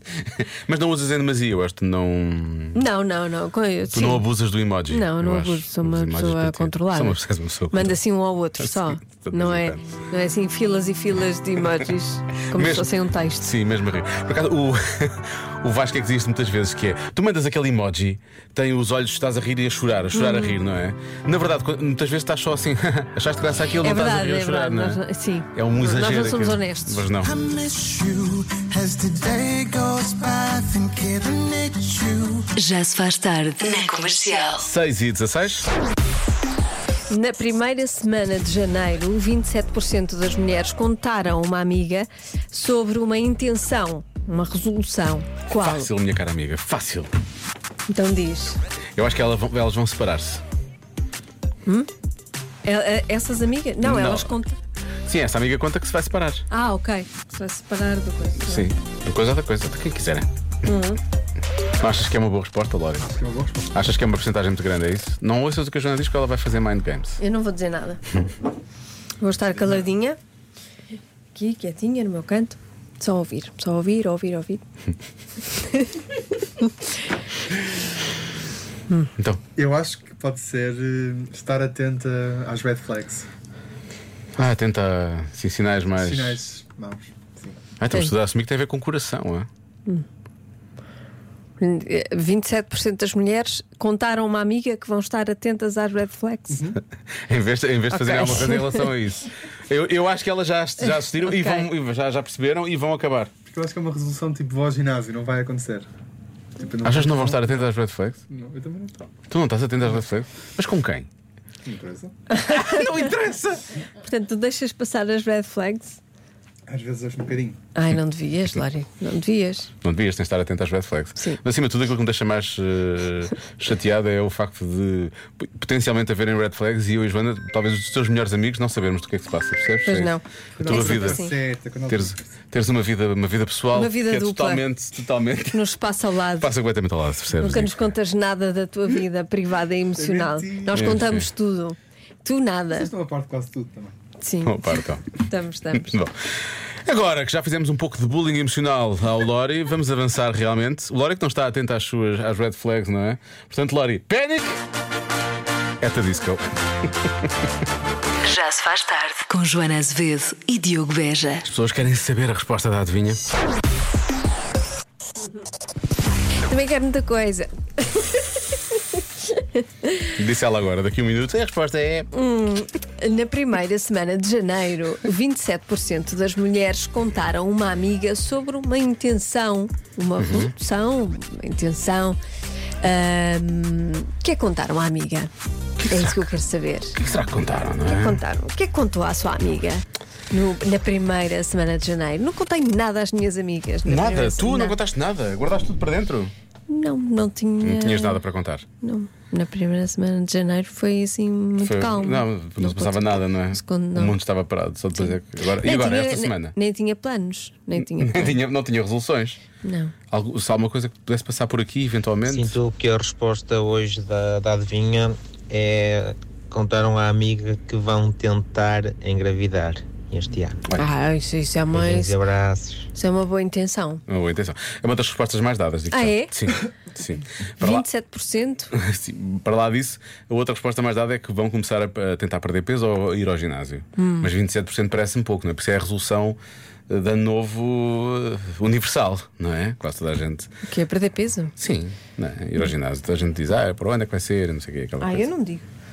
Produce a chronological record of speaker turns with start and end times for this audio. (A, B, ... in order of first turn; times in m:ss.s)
0:00.3-0:02.8 A
0:02.8-0:04.3 B
0:03.9-0:08.0 A
0:04.9-0:07.2 B
0:07.7-0:13.5 B
0:08.6-0:09.9 A
0:12.5-0:12.9 A
0:13.4-0:25.0 A
0:20.1-0:20.6 B
0:23.8-0:27.1 B
0:25.5-0:27.3 A
0:27.7-0:32.4 C
0:32.6-0:34.6 D
0:34.6-0:35.7 A
0:37.1-0:45.9 B
0:45.5-0:47.1 A
0:47.9-0:48.6 B
0:49.0-0:50.4 A
0:52.6-0:54.6 B
0:53.8-0:54.4 A
0:55.1-0:56.5 A
0:56.5-0:58.7 B
0:58.4-1:00.3 A
1:00.6-1:01.0 B
1:01.8-1:03.1 A
1:03.0-1:03.9 E
1:03.7-1:07.2 A
1:07.2-1:08.2 B
1:09.2-1:10.2 B
1:09.6-1:09.9 E
1:11.4-1:14.6 B
1:15.6-1:15.9 B
1:19.6-1:23.3 E
1:24.4-1:26.4 A
1:26.0-1:27.6 E
1:27.8-1:29.5 A
1:27.9-1:28.1 B
1:31.6-1:36.6 B
1:36.5-1:36.8 E
1:37.3-1:43.3 A
1:37.9-1:38.9 B
1:40.8-1:41.7 B
1:43.5-1:45.9 E
1:46.6-1:47.7 E
1:46.8-1:48.2 A
1:48.3-1:49.1 E
1:49.3-1:51.1 A
1:51.6-1:52.1 E
1:52.4-1:53.6 A
1:52.5-1:52.9 B
1:53.9-1:56.0 B
1:56.7-1:57.6 E
1:57.8-1:59.7 B
1:59.8-2:11.3 A
2:01.2-2:01.4 B
2:09.9-2:11.3 B
2:10.6-2:12.3 E
2:11.9-2:15.6 A
2:13.7-2:14.6 B
2:15.5-2:16.5 B
2:16.4-2:17.9 A
2:17.4-2:22.9 B
2:20.0-2:21.1 E
2:20.7-2:21.3 A
2:22.7-2:24.0 E
2:24.2-2:25.9 B
2:24.4-2:25.2 A
2:25.7-2:26.1 A
2:26.8-2:34.6 A
2:35.8-2:36.5 A
2:37.0-2:37.3 A
2:38.3-2:41.4 D
2:41.4-2:43.3 A
2:46.4-2:48.3 B
2:49.4-2:49.6 B
2:50.2-2:52.1 A
2:52.1-3:02.2 B
3:00.2-3:00.5 A
3:02.8-3:05.3 B
3:05.8-3:06.3 A
3:05.8-3:07.0 B
3:06.9-3:08.2 A
3:07.8-3:14.8 B
3:13.8-3:16.3 A
3:16.7-3:18.2 B
3:17.6-3:18.6 A
3:18.8-3:24.2 B
3:21.6-3:26.6 A
3:25.0-3:28.4 B
3:27.8-3:29.4 A
3:29.6-3:29.9 B
3:30.1-3:32.6 A
3:32.6-3:40.6 F
3:40.8-3:42.2 B
3:41.9-3:42.8 F
3:42.9-3:44.0 B
3:44.1-3:47.9 A
3:45.9-3:46.5 B
3:47.6-3:48.7 B
3:48.7-4:00.5 A
3:54.0-3:54.3 B
4:00.7-4:01.5 B
4:01.6-4:05.3 A
4:05.0-4:05.6 B